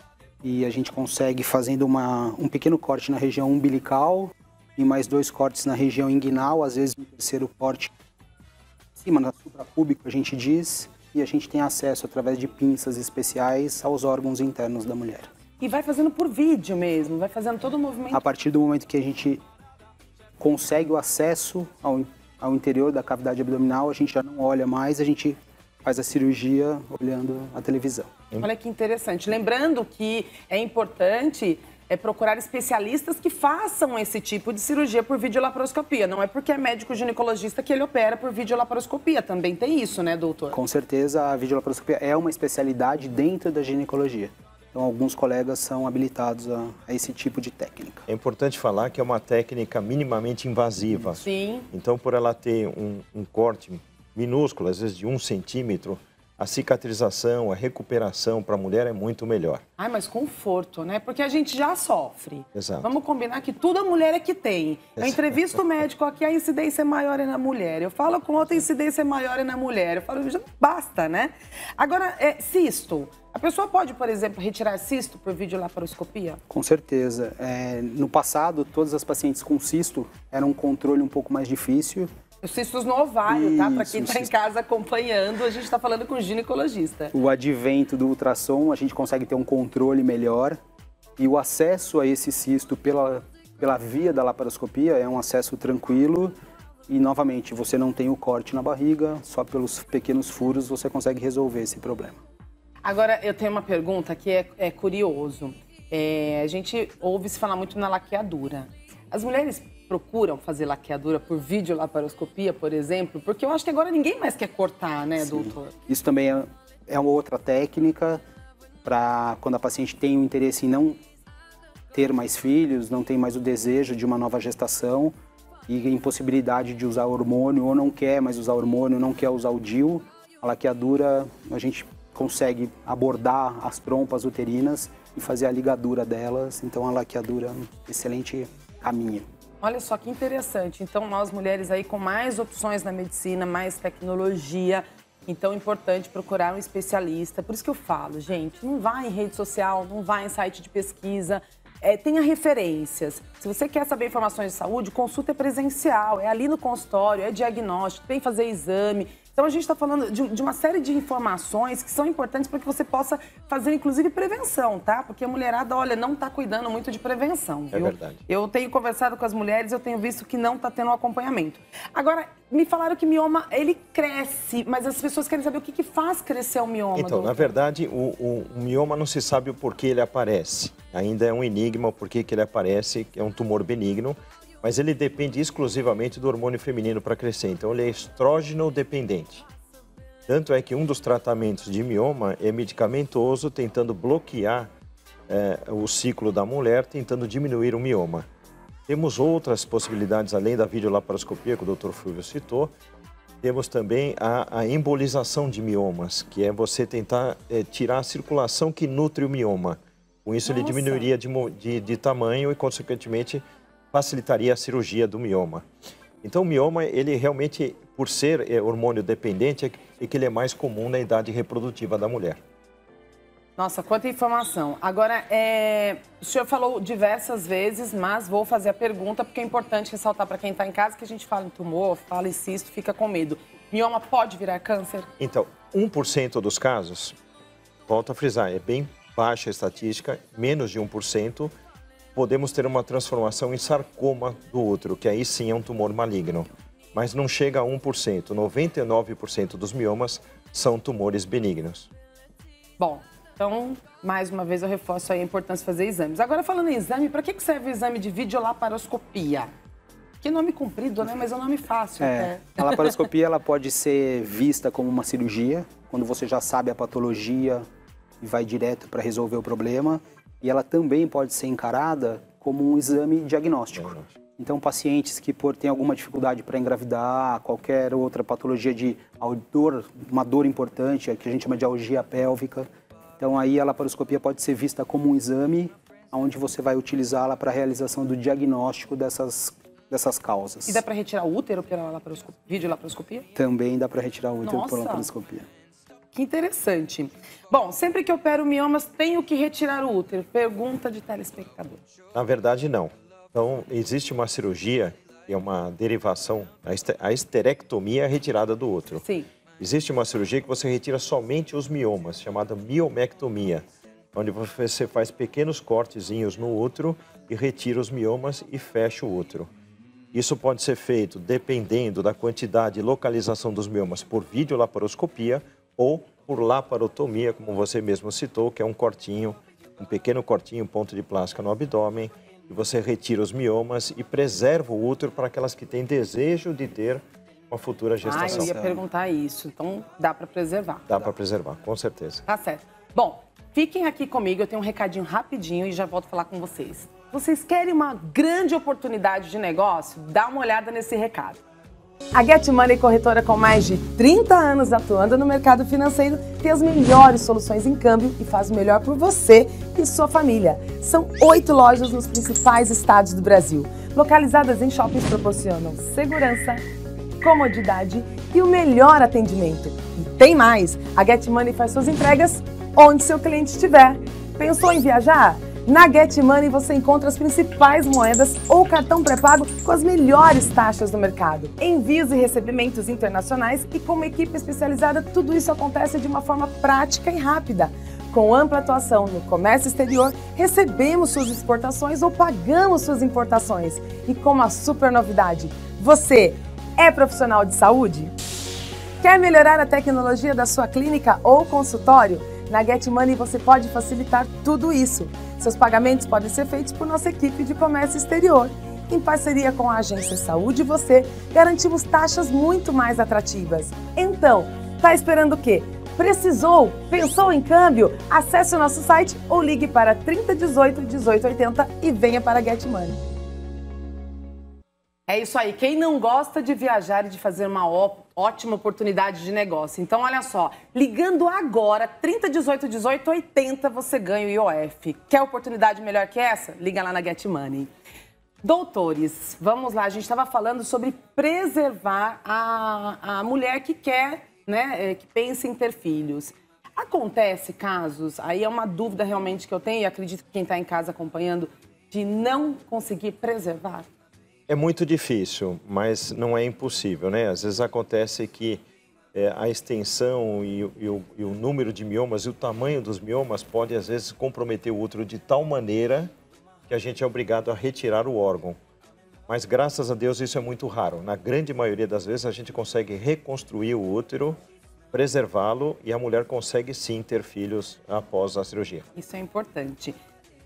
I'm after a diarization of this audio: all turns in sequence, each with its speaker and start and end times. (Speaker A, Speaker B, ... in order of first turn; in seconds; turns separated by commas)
Speaker A: 0.4-7.9, Speaker A: 9.0-15.3, Speaker B: 15.6-18.2, Speaker A: 18.1-19.4, Speaker A: 20.4-28.1, Speaker B: 28.4-40.6, Speaker A: 40.5-48.1, Speaker C: 48.1-59.6, Speaker B: 51.2-51.7, Speaker B: 59.8-76.4, Speaker C: 62.5-62.9, Speaker C: 65.0-65.6, Speaker A: 76.5-82.1, Speaker B: 82.4-87.1, Speaker A: 83.3-84.3, Speaker A: 87.1-90.6, Speaker A: 91.2-96.3, Speaker A: 96.9-102.2, Speaker B: 102.8-115.8, Speaker A: 115.2-118.2, Speaker A: 118.8-121.0, Speaker A: 121.9-125.1, Speaker A: 125.7-139.2, Speaker B: 139.6-177.5, Speaker C: 167.7-168.2, Speaker C: 176.9-189.4, Speaker C: 190.3-194.7, Speaker C: 195.3-198.2, Speaker C: 198.9-202.7, Speaker C: 203.4-215.6, Speaker B: 210.4-211.1, Speaker C: 216.2-222.4, Speaker B: 223.6-235.1, Speaker C: 235.2-237.1, Speaker C: 237.9-241.5, Speaker C: 242.2-251.9, Speaker B: 252.8-259.5, Speaker B: 260.2-263.0, Speaker A: 262.0-267.6, Speaker A: 268.2-282.7, Speaker C: 273.7-274.1, Speaker A: 283.2-290.8, Speaker B: 290.7-293.2, Speaker A: 293.4-295.5, Speaker B: 294.4-295.1, Speaker B: 296.1-301.8, Speaker C: 302.1-309.0, Speaker B: 309.0-309.3, Speaker C: 309.6-319.5, Speaker C: 320.1-338.5, Speaker B: 338.0-341.1, Speaker A: 338.1-338.8, Speaker C: 340.9-342.2, Speaker B: 342.3-351.4, Speaker B: 352.1-366.6, Speaker B: 367.2-398.1, Speaker B: 399.0-423.0, Speaker B: 425.1-437.7, Speaker B: 438.4-453.9, Speaker C: 454.5-458.6, Speaker C: 459.1-466.1, Speaker C: 466.7-468.6, Speaker C: 469.3-474.4, Speaker C: 474.9-478.8, Speaker B: 478.9-480.0